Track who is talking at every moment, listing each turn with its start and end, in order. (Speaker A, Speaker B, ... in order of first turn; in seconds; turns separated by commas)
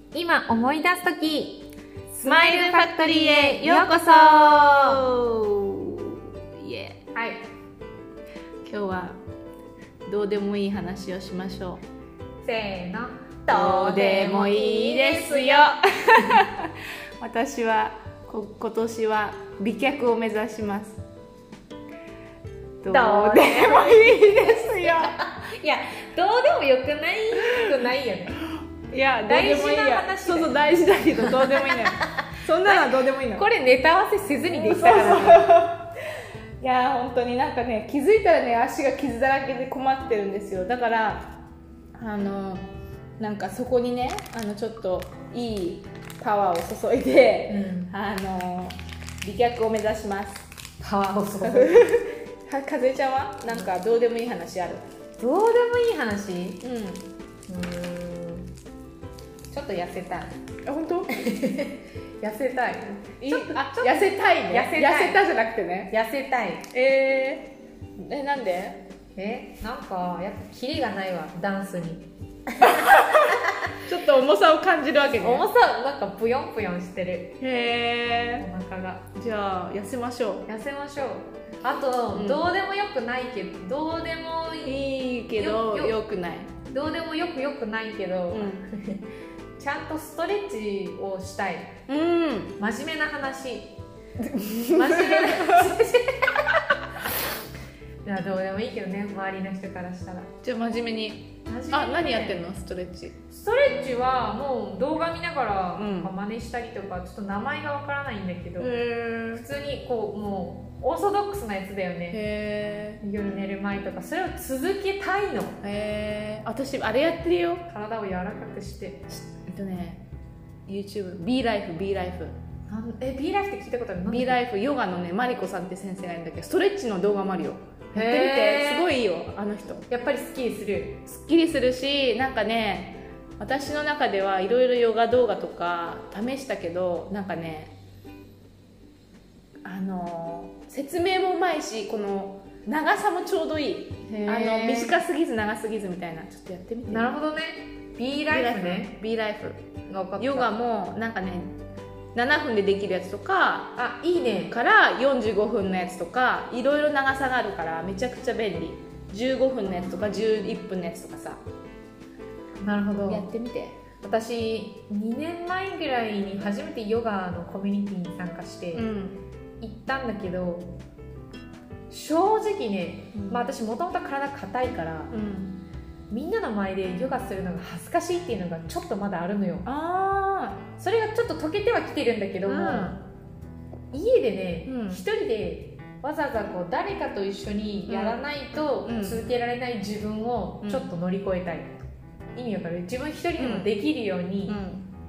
Speaker A: 0.1-1.6, Speaker B: 2.1-7.0, Speaker A: 2.2-5.0, Speaker A: 7.2-7.4, Speaker B: 8.6-9.2, Speaker B: 10.1-11.8, Speaker A: 12.4-16.2, Speaker B: 13.5-21.0, Speaker B: 22.8-25.2, Speaker A: 22.9-28.4, Speaker B: 28.5-33.4, Speaker A: 29.2-35.5, Speaker B: 34.5-35.9, Speaker B: 36.6-41.3, Speaker B: 42.0-50.5, Speaker A: 47.5-47.9, Speaker A: 50.8-52.0, Speaker B: 51.4-54.8, Speaker A: 55.2-56.6, Speaker B: 56.6-57.0, Speaker A: 57.5-58.5, Speaker A: 59.5-60.3, Speaker B: 60.6-61.1, Speaker A: 61.1-65.2, Speaker B: 63.2-65.9, Speaker A: 65.9-66.6, Speaker B: 66.7-68.8, Speaker A: 69.2-72.1, Speaker B: 72.6-75.5, Speaker A: 75.2-77.4, Speaker B: 77.4-78.5, Speaker A: 78.4-79.1, Speaker B: 79.2-80.5, Speaker A: 80.5-86.0, Speaker B: 82.1-82.5, Speaker B: 84.6-86.5, Speaker A: 86.7-89.0, Speaker B: 88.3-88.7, Speaker A: 89.6-91.7, Speaker B: 91.9-92.6, Speaker A: 92.6-93.7, Speaker B: 94.2-95.7, Speaker A: 94.7-96.5, Speaker A: 98.0-100.3, Speaker B: 100.4-103.2, Speaker A: 101.5-102.5, Speaker A: 103.3-108.7, Speaker B: 105.8-106.1, Speaker B: 108.6-109.5, Speaker A: 109.3-112.2, Speaker B: 112.1-113.0, Speaker A: 113.0-115.6, Speaker B: 115.6-117.7, Speaker A: 117.7-119.1, Speaker B: 119.2-120.0, Speaker B: 120.7-122.4, Speaker A: 122.7-124.4, Speaker B: 124.1-129.8, Speaker A: 127.9-128.9, Speaker A: 129.9-131.0, Speaker B: 131.1-137.8, Speaker B: 139.6-147.1, Speaker A: 144.1-145.0, Speaker A: 146.9-149.0, Speaker B: 148.3-149.6, Speaker A: 149.9-150.5, Speaker B: 150.2-151.5, Speaker B: 152.1-153.8, Speaker A: 153.8-154.6, Speaker B: 154.5-161.4, Speaker A: 162.6-163.3, Speaker B: 163.1-163.8, Speaker A: 164.0-168.9, Speaker B: 168.7-169.2, Speaker A: 169.6-170.7, Speaker A: 171.9-175.1, Speaker B: 173.2-173.4, Speaker B: 175.1-175.6, Speaker A: 176.1-179.7, Speaker B: 179.7-180.7, Speaker A: 180.8-183.0, Speaker B: 182.5-183.0, Speaker A: 183.9-191.8, Speaker B: 184.7-185.0, Speaker B: 187.9-189.2, Speaker B: 190.6-190.9, Speaker A: 192.3-194.6, Speaker B: 193.4-193.7, Speaker B: 194.5-194.9